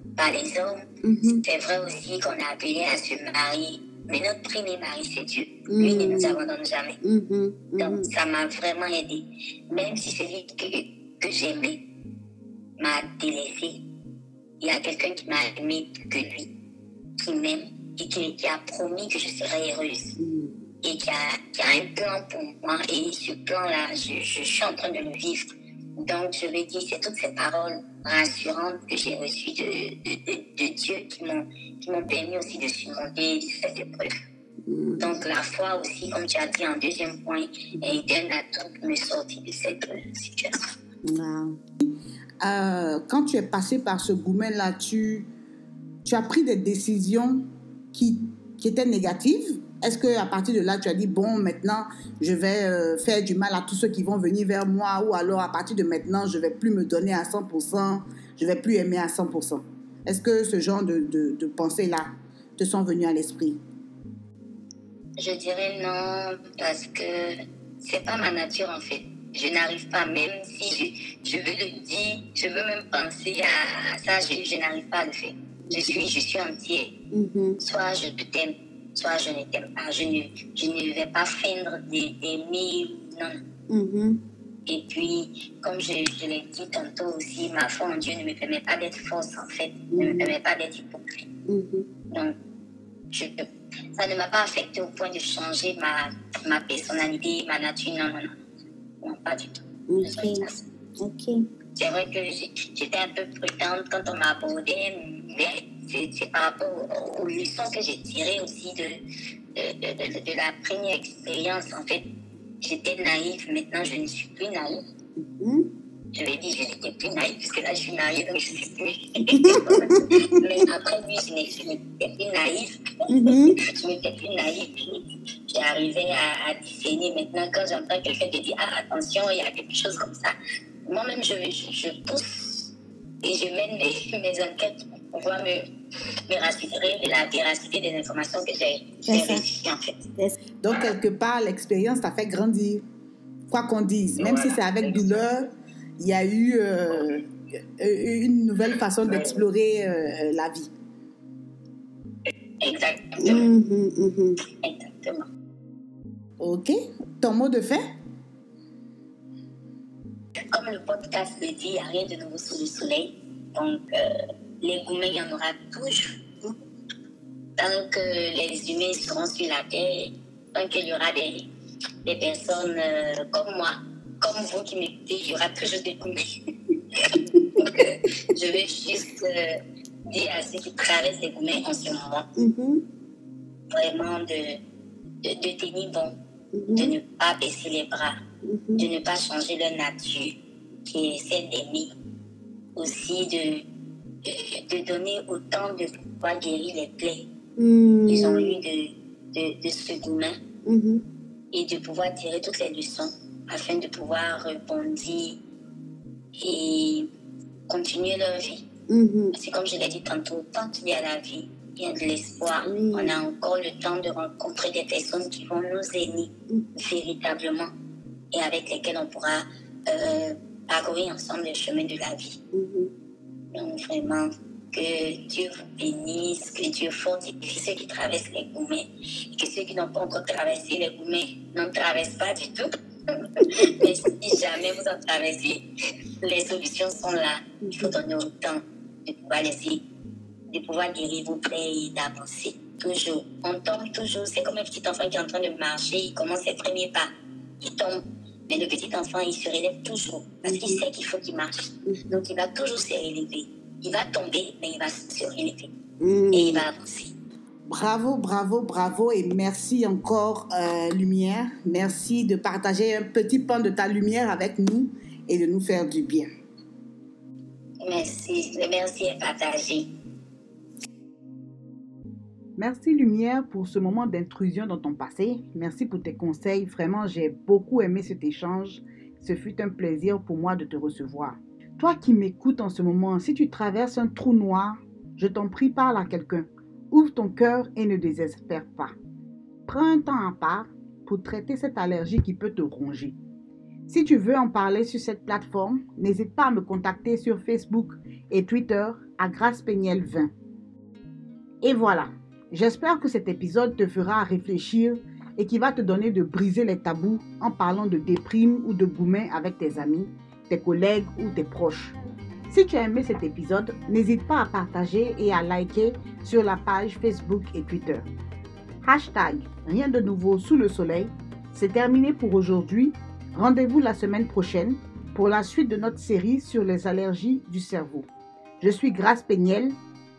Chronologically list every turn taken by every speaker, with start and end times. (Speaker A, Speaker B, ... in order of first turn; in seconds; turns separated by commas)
Speaker A: 0.2-7.0, Speaker B: 1.0-1.4, Speaker B: 5.7-6.4, Speaker B: 7.0-8.1, Speaker A: 7.8-11.8, Speaker A: 12.8-13.8, Speaker A: 14.6-16.5, Speaker A: 17.2-20.2, Speaker B: 20.2-20.6, Speaker A: 20.8-34.1, Speaker B: 34.7-35.1, Speaker A: 35.0-40.7, Speaker B: 41.0-41.6, Speaker C: 41.8-45.3, Speaker C: 46.0-63.6, Speaker A: 65.2-76.9, Speaker B: 75.7-76.0, Speaker B: 77.1-77.6, Speaker A: 77.6-83.4, Speaker B: 83.7-84.2, Speaker A: 84.7-91.3, Speaker B: 89.9-90.3, Speaker B: 91.5-91.9, Speaker A: 92.1-92.4, Speaker A: 93.1-98.4, Speaker A: 99.0-100.6, Speaker B: 99.9-100.5, Speaker B: 101.0-101.5, Speaker A: 101.8-109.0, Speaker A: 109.5-112.1, Speaker A: 112.6-114.8, Speaker B: 115.2-115.7, Speaker A: 116.2-135.7, Speaker B: 119.3-120.4, Speaker B: 123.1-123.6, Speaker A: 136.3-140.1, Speaker B: 139.1-139.4, Speaker C: 140.6-142.8, Speaker C: 143.5-150.7, Speaker A: 144.2-145.3, Speaker A: 149.1-149.4, Speaker A: 152.6-153.5, Speaker B: 153.2-154.4, Speaker A: 154.6-155.3, Speaker C: 156.4-157.8, Speaker A: 160.5-166.5, Speaker A: 167.6-171.5, Speaker A: 172.1-176.3, Speaker A: 176.9-182.3, Speaker B: 177.3-177.7, Speaker B: 182.4-182.8, Speaker A: 183.7-184.6, Speaker A: 185.2-186.2, Speaker B: 186.5-187.0, Speaker A: 186.7-188.2, Speaker B: 188.4-188.9, Speaker A: 188.8-191.9, Speaker A: 192.8-193.7, Speaker A: 194.2-197.3, Speaker B: 197.6-198.6, Speaker A: 198.1-200.4, Speaker B: 200.7-201.0, Speaker A: 201.5-205.4, Speaker A: 206.4-207.1, Speaker A: 207.7-208.7, Speaker B: 208.9-209.3, Speaker A: 209.3-217.7, Speaker B: 212.7-213.2, Speaker A: 218.3-222.4, Speaker B: 222.5-222.9, Speaker A: 223.5-235.7, Speaker B: 233.5-233.9, Speaker A: 236.2-239.8, Speaker B: 237.6-237.9, Speaker A: 240.5-255.7, Speaker B: 250.4-250.8, Speaker B: 256.0-256.7, Speaker A: 256.3-257.1, Speaker C: 257.7-266.3, Speaker A: 267.8-269.9, Speaker C: 272.6-288.9, Speaker C: 289.7-293.2, Speaker C: 293.9-300.3, Speaker C: 301.6-311.9, Speaker C: 312.5-318.1, Speaker C: 318.8-328.1, Speaker C: 328.6-329.8